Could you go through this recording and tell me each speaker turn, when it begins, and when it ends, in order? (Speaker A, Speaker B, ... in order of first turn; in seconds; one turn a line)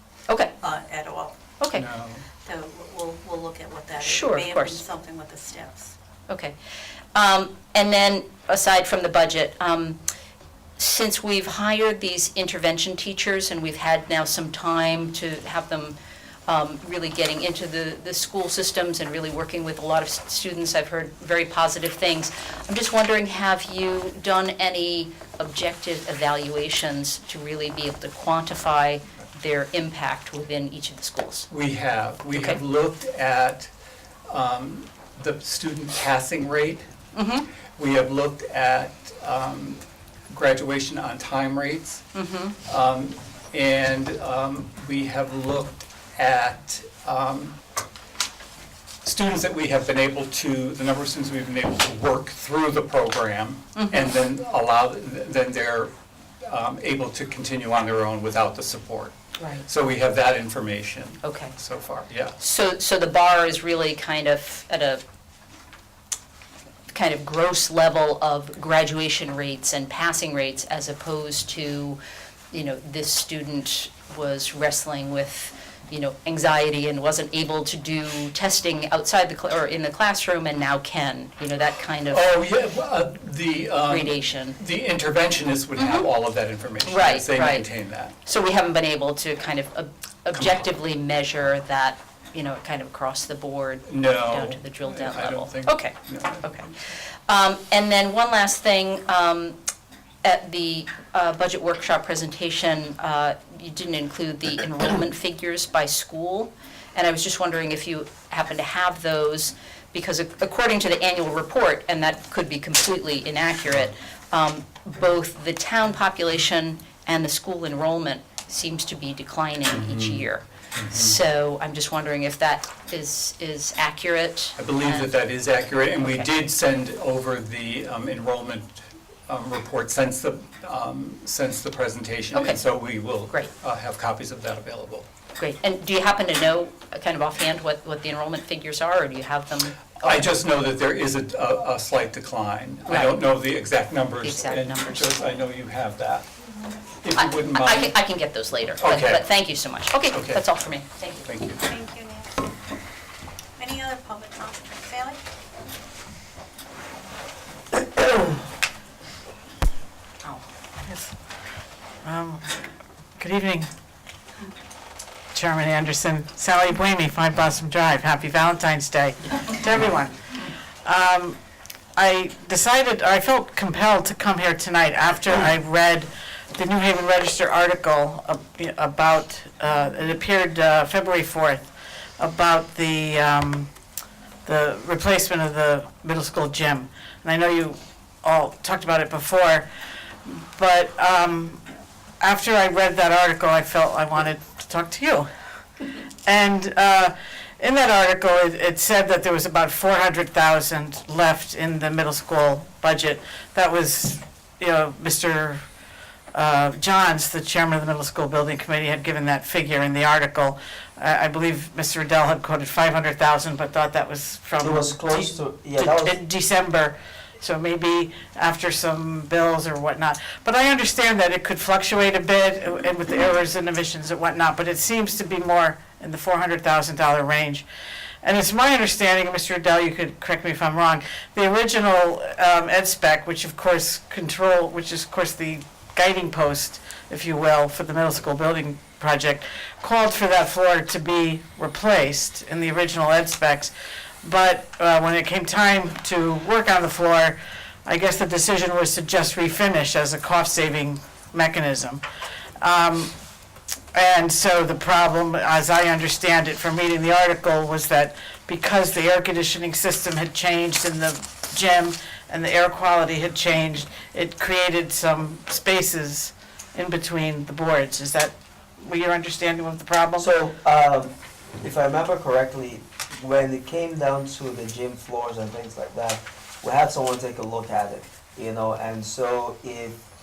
Speaker A: 0.3-0.5
Speaker B: 0.6-1.5
Speaker A: 1.6-1.9
Speaker C: 1.7-2.2
Speaker B: 2.4-6.0
Speaker A: 4.0-4.8
Speaker A: 6.3-6.5
Speaker A: 7.1-10.0
Speaker A: 10.8-15.9
Speaker A: 16.5-31.5
Speaker C: 31.5-33.7
Speaker A: 32.3-32.6
Speaker C: 34.3-36.9
Speaker A: 37.1-37.5
Speaker C: 37.7-42.0
Speaker A: 42.1-42.5
Speaker C: 42.6-47.6
Speaker C: 49.0-55.9
Speaker A: 53.8-54.1
Speaker C: 56.4-62.4
Speaker A: 59.4-59.6
Speaker A: 61.2-61.5
Speaker A: 62.4-65.0
Speaker A: 66.9-72.0
Speaker A: 72.5-82.3
Speaker C: 82.1-88.2
Speaker A: 83.8-84.6
Speaker A: 85.8-86.1
Speaker A: 86.8-99.6
Speaker C: 93.8-96.6
Speaker A: 100.2-125.2
Speaker C: 119.7-121.2
Speaker C: 124.6-135.1
Speaker A: 125.8-126.3
Speaker A: 132.3-132.6
Speaker A: 135.4-140.3
Speaker C: 140.0-146.3
Speaker A: 142.9-143.2
Speaker A: 144.2-145.4
Speaker C: 147.0-148.0
Speaker A: 147.2-151.2
Speaker C: 148.8-149.3
Speaker C: 150.0-150.4
Speaker C: 151.2-151.7
Speaker B: 151.6-152.5
Speaker B: 153.6-155.2
Speaker D: 160.2-161.1
Speaker D: 162.0-162.5
Speaker D: 163.2-163.7
Speaker D: 165.3-171.4
Speaker D: 172.0-181.7
Speaker D: 182.2-183.7
Speaker D: 184.4-189.7
Speaker D: 190.2-191.6
Speaker D: 192.2-195.3
Speaker D: 196.2-205.6
Speaker D: 206.3-227.7
Speaker E: 214.6-216.2
Speaker D: 228.2-243.7
Speaker D: 244.2-252.0
Speaker D: 252.6-253.1
Speaker D: 253.9-270.3
Speaker E: 270.2-280.0